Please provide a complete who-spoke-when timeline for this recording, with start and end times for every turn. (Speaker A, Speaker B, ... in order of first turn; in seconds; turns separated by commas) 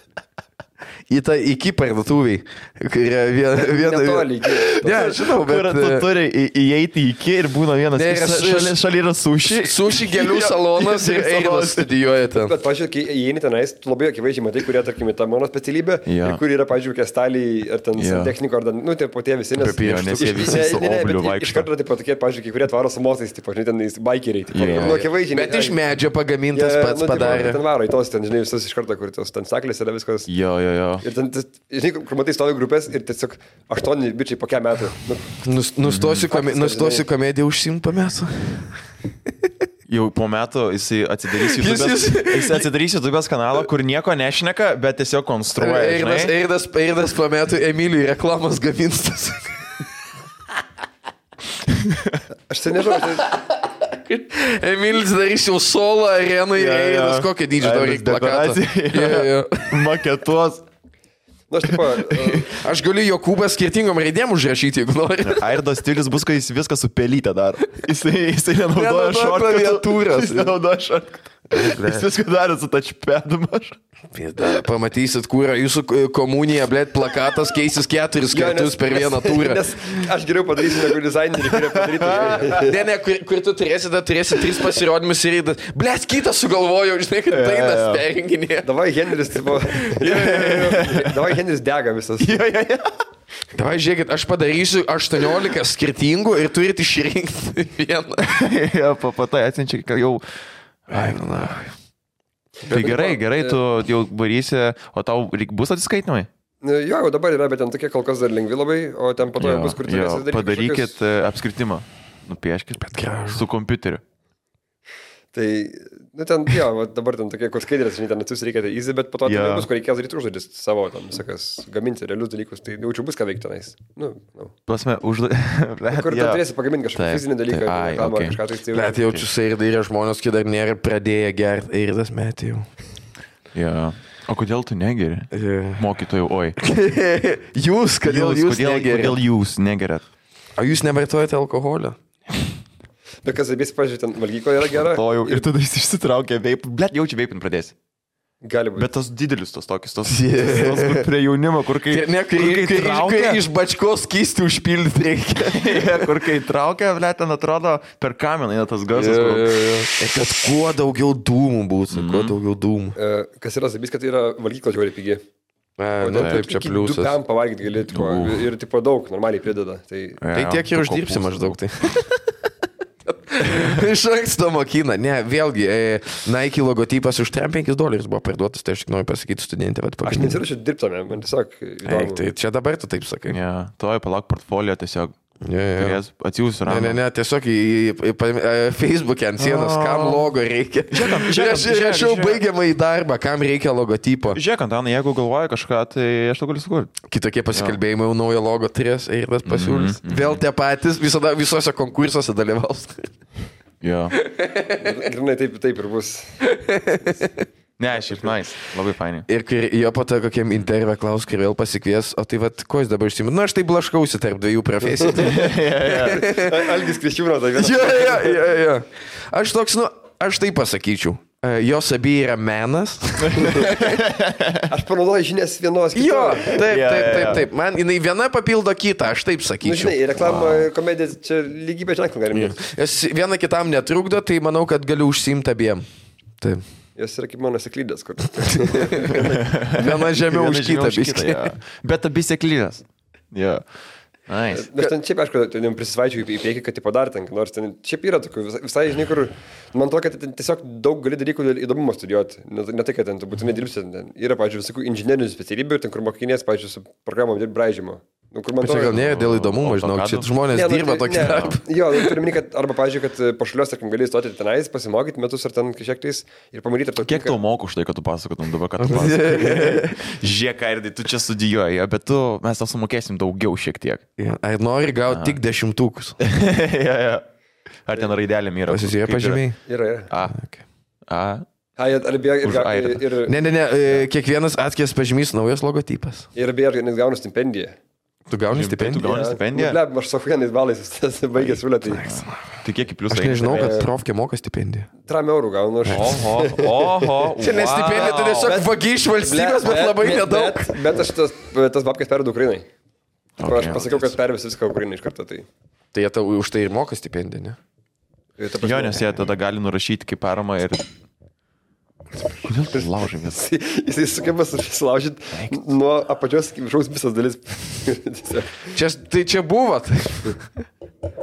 Speaker A: 1.1-6.1, Speaker B: 3.5-5.1, Speaker C: 4.7-11.9, Speaker A: 7.9-8.8, Speaker A: 9.4-12.5, Speaker B: 12.4-25.8, Speaker C: 16.1-16.4, Speaker C: 17.9-18.3, Speaker C: 19.6-21.7, Speaker A: 19.6-20.8, Speaker C: 24.5-25.1, Speaker A: 24.8-27.6, Speaker B: 26.5-30.3, Speaker C: 30.3-31.0, Speaker B: 31.0-35.4, Speaker A: 35.4-38.8, Speaker C: 35.8-36.3, Speaker B: 36.3-37.0, Speaker C: 39.9-46.3, Speaker A: 41.3-42.7, Speaker A: 45.6-49.6, Speaker C: 51.7-52.2, Speaker B: 52.5-53.3, Speaker A: 53.0-59.9, Speaker C: 56.5-60.6, Speaker B: 61.5-62.5, Speaker C: 61.7-62.5, Speaker A: 62.5-65.4, Speaker C: 65.2-73.8, Speaker A: 68.7-70.5, Speaker A: 71.5-72.1, Speaker A: 74.1-80.0, Speaker B: 78.3-82.8, Speaker C: 81.8-82.6, Speaker A: 82.5-88.7, Speaker C: 87.3-88.0, Speaker B: 88.6-92.4, Speaker A: 89.7-90.6, Speaker C: 90.0-91.3, Speaker C: 92.2-93.0, Speaker A: 93.5-98.2, Speaker C: 98.2-100.2, Speaker C: 100.9-101.2, Speaker A: 100.9-101.7, Speaker B: 102.6-103.6, Speaker C: 102.7-106.3, Speaker B: 106.6-110.9, Speaker C: 109.4-114.0, Speaker A: 112.8-113.4, Speaker B: 115.3-124.5, Speaker C: 119.2-119.7, Speaker C: 124.7-126.4, Speaker B: 125.9-129.0, Speaker C: 126.9-128.4, Speaker A: 128.7-132.7, Speaker C: 133.5-136.6, Speaker A: 135.3-135.8, Speaker A: 136.6-139.2, Speaker C: 138.0-140.0, Speaker A: 140.6-142.0, Speaker B: 143.2-145.5, Speaker C: 144.7-147.7, Speaker B: 148.4-148.9, Speaker C: 148.8-153.4, Speaker A: 150.1-151.1, Speaker A: 151.9-156.1, Speaker C: 155.5-159.7, Speaker A: 158.9-162.9, Speaker C: 161.9-162.3, Speaker B: 163.0-165.2, Speaker A: 165.8-167.2, Speaker B: 166.0-170.2, Speaker C: 167.9-168.5, Speaker C: 170.2-171.6, Speaker A: 170.3-172.3, Speaker A: 173.1-180.4, Speaker B: 180.0-182.2, Speaker A: 181.8-183.4, Speaker C: 183.3-185.2, Speaker A: 185.4-186.0, Speaker C: 185.8-187.0, Speaker A: 186.7-194.4, Speaker C: 189.4-190.3, Speaker C: 190.9-192.4, Speaker C: 194.3-196.9, Speaker A: 197.1-203.1, Speaker C: 199.4-200.4, Speaker C: 203.8-204.2, Speaker A: 204.2-205.0, Speaker B: 204.8-206.4, Speaker A: 206.4-207.4, Speaker C: 207.8-209.3, Speaker A: 209.3-216.7, Speaker B: 215.0-218.5, Speaker C: 215.2-216.3, Speaker A: 217.6-224.0, Speaker C: 223.2-224.7, Speaker B: 224.7-226.7, Speaker A: 225.9-230.4, Speaker C: 226.6-227.4, Speaker B: 229.6-232.6, Speaker C: 230.2-230.7, Speaker A: 232.3-235.8, Speaker B: 236.9-239.5, Speaker A: 238.6-241.5, Speaker C: 239.1-243.6, Speaker C: 244.3-244.7, Speaker B: 244.5-258.9, Speaker A: 258.6-262.2, Speaker C: 258.7-260.3, Speaker B: 260.5-267.4, Speaker C: 261.1-261.6, Speaker C: 267.0-274.0, Speaker A: 268.8-270.0, Speaker A: 274.2-276.2, Speaker C: 275.1-275.4, Speaker C: 276.2-277.2, Speaker C: 277.9-279.4, Speaker A: 278.7-279.6, Speaker B: 279.7-280.1, Speaker C: 280.1-280.5, Speaker C: 281.1-281.4, Speaker B: 281.8-283.4, Speaker C: 282.4-283.0, Speaker A: 283.2-286.2, Speaker B: 286.3-287.8, Speaker A: 288.3-289.1, Speaker C: 288.5-289.8, Speaker B: 289.0-292.1, Speaker A: 291.8-292.4, Speaker C: 292.0-293.7, Speaker A: 293.1-294.9, Speaker B: 293.4-293.9, Speaker B: 295.1-297.1, Speaker C: 295.9-298.6, Speaker A: 297.4-300.8, Speaker B: 297.9-302.6, Speaker C: 303.4-304.1, Speaker B: 303.4-305.4, Speaker A: 305.9-307.6, Speaker B: 308.4-309.1, Speaker C: 308.6-310.8, Speaker C: 312.4-313.4, Speaker B: 312.7-318.7, Speaker C: 315.3-315.6, Speaker A: 318.7-320.4